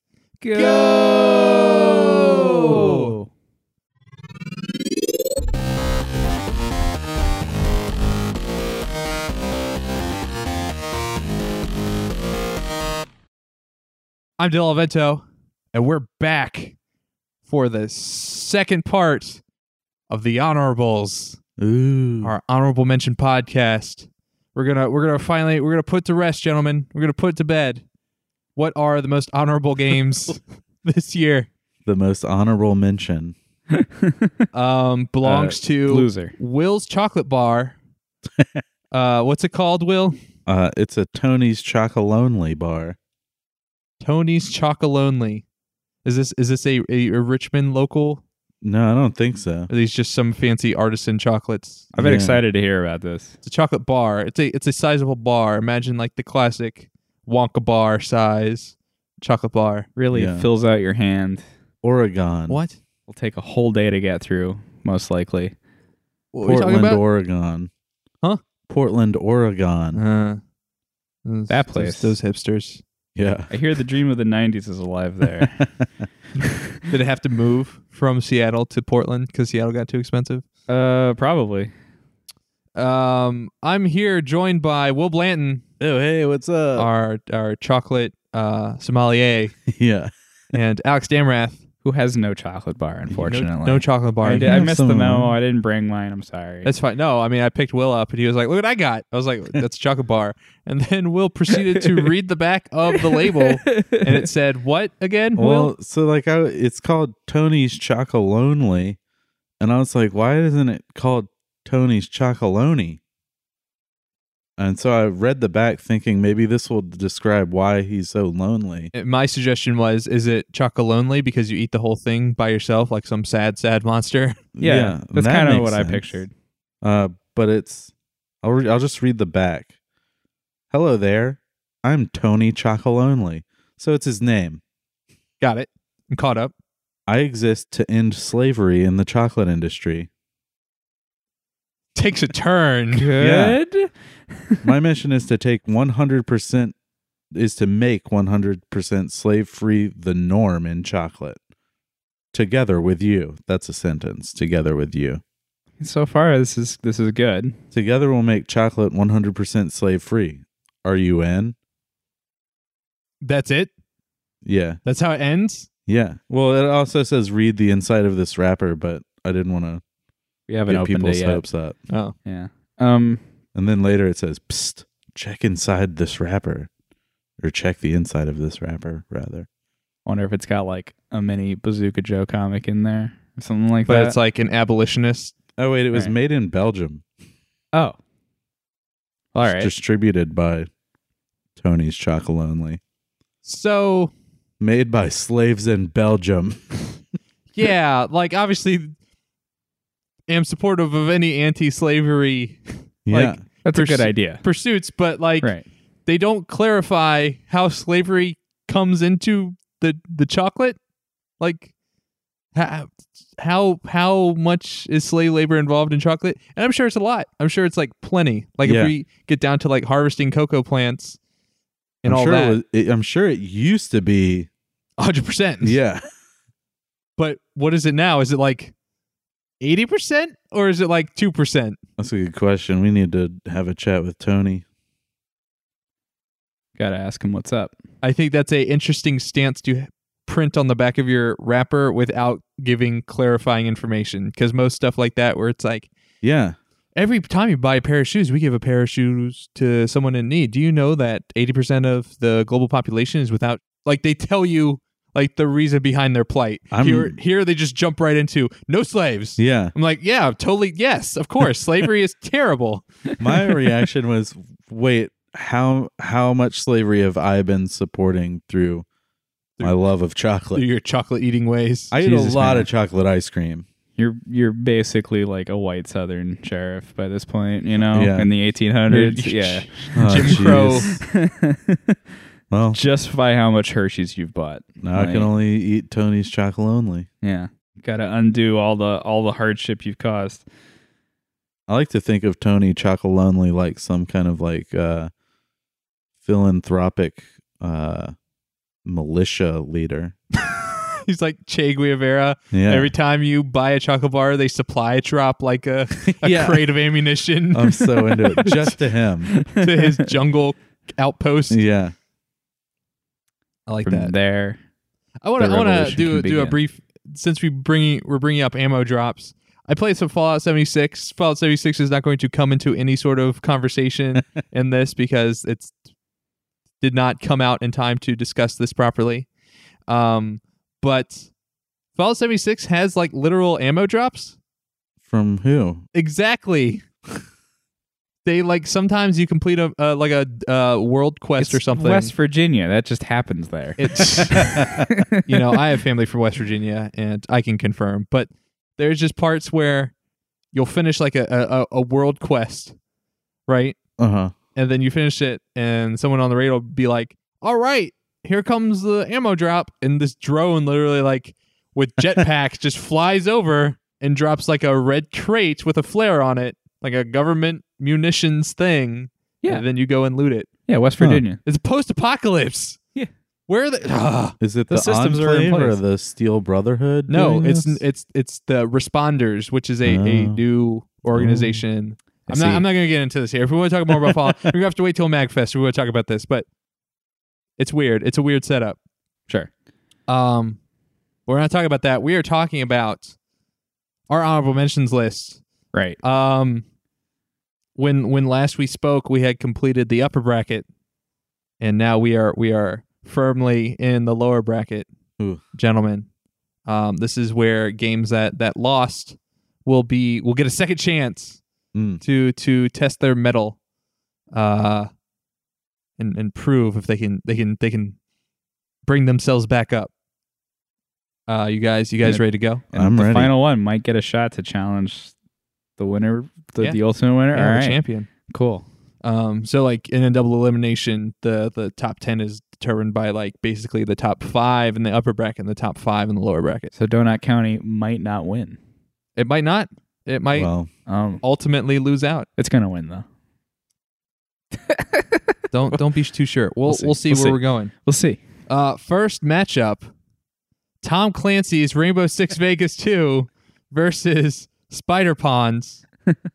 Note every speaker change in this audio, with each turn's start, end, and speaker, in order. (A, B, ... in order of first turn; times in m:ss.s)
0:00.4-0:03.3 A
0:00.5-0:03.1 B
0:14.4-0:16.8 B
0:17.4-0:19.4 B
0:20.1-0:21.4 B
0:21.6-0:22.3 C
0:22.2-0:27.8 B
0:28.6-0:31.5 B
0:31.8-0:33.4 C
0:33.7-0:34.3 A
0:34.5-0:37.8 B
0:35.2-0:36.3 A
0:38.4-0:38.6 C
0:38.9-0:40.2 B
0:40.5-0:43.0 C
0:44.0-0:45.4 B
0:46.0-0:48.2 B
0:48.6-0:49.7 C
0:49.7-0:51.9 B
0:51.9-0:53.4 A
0:52.0-0:52.4 C
0:53.4-0:59.9 B
1:00.0-1:01.4 A
1:00.1-1:00.5 C
1:01.8-1:02.6 C
1:02.5-1:02.8 B
1:03.1-1:05.6 A
1:06.3-1:07.0 B
1:06.4-1:07.7 C
1:08.7-1:10.0 C
1:09.9-1:10.4 B
1:11.2-1:12.8 B
1:11.5-1:12.2 A
1:13.2-1:13.5 C
1:13.5-1:15.7 A
1:15.3-1:15.9 C
1:16.4-1:16.8 A
1:16.9-1:20.5 B
1:20.7-1:21.7 A
1:22.8-1:25.6 B
1:25.8-1:26.9 C
1:26.8-1:29.6 B
1:29.7-1:30.1 C
1:30.5-1:31.6 B
1:31.8-1:36.7 A
1:33.2-1:34.7 B
1:34.4-1:35.4 C
1:36.6-1:45.7 B
1:42.9-1:44.2 A
1:45.4-1:49.0 C
1:49.6-1:53.0 C
1:54.6-1:58.9 C
1:58.9-2:04.4 B
2:04.6-2:06.2 C
2:04.6-2:06.3 A
2:06.8-2:07.9 C
2:08.4-2:09.7 C
2:10.7-2:14.6 C
2:15.4-2:16.5 B
2:17.1-2:20.1 C
2:22.0-2:23.1 B
2:22.9-2:23.9 A
2:23.2-2:23.6 C
2:24.6-2:26.7 C
2:27.3-2:31.4 C
2:32.3-2:35.2 C
2:35.8-2:37.6 A
2:37.7-2:41.6 C
2:43.2-2:43.7 B
2:44.4-2:44.8 C
2:44.8-2:45.7 B
2:45.9-2:49.8 C
2:50.5-2:51.4 A
2:50.7-2:51.8 C
2:52.3-2:53.2 A
2:53.6-2:56.7 C
2:57.4-2:59.5 C
3:00.1-3:04.2 A
3:03.9-3:05.3 B
3:05.6-3:07.0 C
3:09.4-3:09.7 A
3:09.4-3:10.7 C
3:11.6-3:12.8 C
3:13.4-3:14.1 B
3:14.6-3:17.0 C
3:17.5-3:18.9 B
3:20.3-3:25.5 B
3:23.1-3:23.4 C
3:23.6-3:24.4 A
3:26.1-3:30.8 B
3:31.4-3:31.7 B
3:32.6-3:41.2 B
3:38.6-3:38.9 C
3:42.0-3:42.6 B
3:42.1-3:44.5 C
3:45.0-3:45.8 B
3:45.6-3:46.1 C
3:47.2-3:48.7 B
3:49.6-3:51.8 B
3:52.0-3:54.6 C
3:56.8-3:57.7 A
3:58.0-4:05.9 B
4:06.2-4:06.6 C
4:07.0-4:22.9 B
4:16.7-4:17.2 C
4:19.4-4:19.7 C
4:23.2-4:28.9 C
4:29.6-4:30.6 C
4:30.5-4:32.6 B
4:31.9-4:33.7 C
4:34.0-4:42.0 A
4:37.8-4:38.3 C
4:38.9-4:40.9 B
4:40.0-4:41.0 C
4:42.5-4:42.8 C
4:42.7-4:45.3 A
4:44.8-4:47.1 C
4:47.2-4:50.4 A
4:51.7-4:55.1 C
4:56.2-4:58.1 C
4:58.8-5:00.2 C
5:00.5-5:08.7 B
5:02.5-5:02.9 C
5:06.0-5:06.8 C
5:07.5-5:09.3 C
5:09.4-5:09.9 A
5:09.5-5:11.6 B
5:11.5-5:12.0 C
5:13.7-5:14.1 B
5:13.8-5:14.6 A
5:15.2-5:25.8 B
5:15.4-5:16.6 A
5:26.8-5:29.3 B
5:29.9-5:31.3 B
5:32.0-5:34.4 B
5:35.1-5:35.8 C
5:35.9-5:36.9 B
5:38.2-5:42.1 B
5:41.4-5:45.6 A
5:43.8-5:44.7 B
5:44.4-5:44.9 C
5:45.3-5:49.9 B
5:50.5-5:52.8 B
5:53.5-5:53.8 B
5:54.0-5:54.3 C
5:54.6-6:10.5 B
6:10.7-6:11.4 A
6:11.4-6:12.8 B
6:13.5-6:14.4 B
6:14.4-6:17.8 C
6:14.7-6:15.8 A
6:17.1-6:26.5 B
6:19.8-6:20.4 C
6:21.1-6:21.6 C
6:22.3-6:22.6 A
6:27.6-6:28.8 B
6:30.1-6:30.6 B
6:31.3-6:33.2 B
6:34.1-6:35.4 B
6:36.0-6:36.6 B
6:37.8-6:40.6 B
6:41.6-6:44.9 B
6:45.5-6:46.1 B
6:46.7-6:51.4 B
6:51.7-6:52.0 C
6:52.0-6:53.6 B
6:54.3-6:54.9 B
6:56.0-6:58.0 B
6:58.9-6:59.9 B
7:01.3-7:02.6 B
7:02.0-7:05.1 A
7:02.7-7:03.3 C
7:05.8-7:08.6 A
7:07.3-7:08.1 B
7:09.0-7:16.7 B
7:16.7-7:18.6 A
7:19.2-7:20.5 B
7:20.4-7:20.7 C
7:20.9-7:21.2 A
7:21.2-7:22.3 B
7:22.4-7:23.0 A
7:24.6-7:25.2 A
7:25.5-7:27.7 B
7:26.7-7:28.2 A
7:28.5-7:29.9 B
7:30.8-7:35.8 B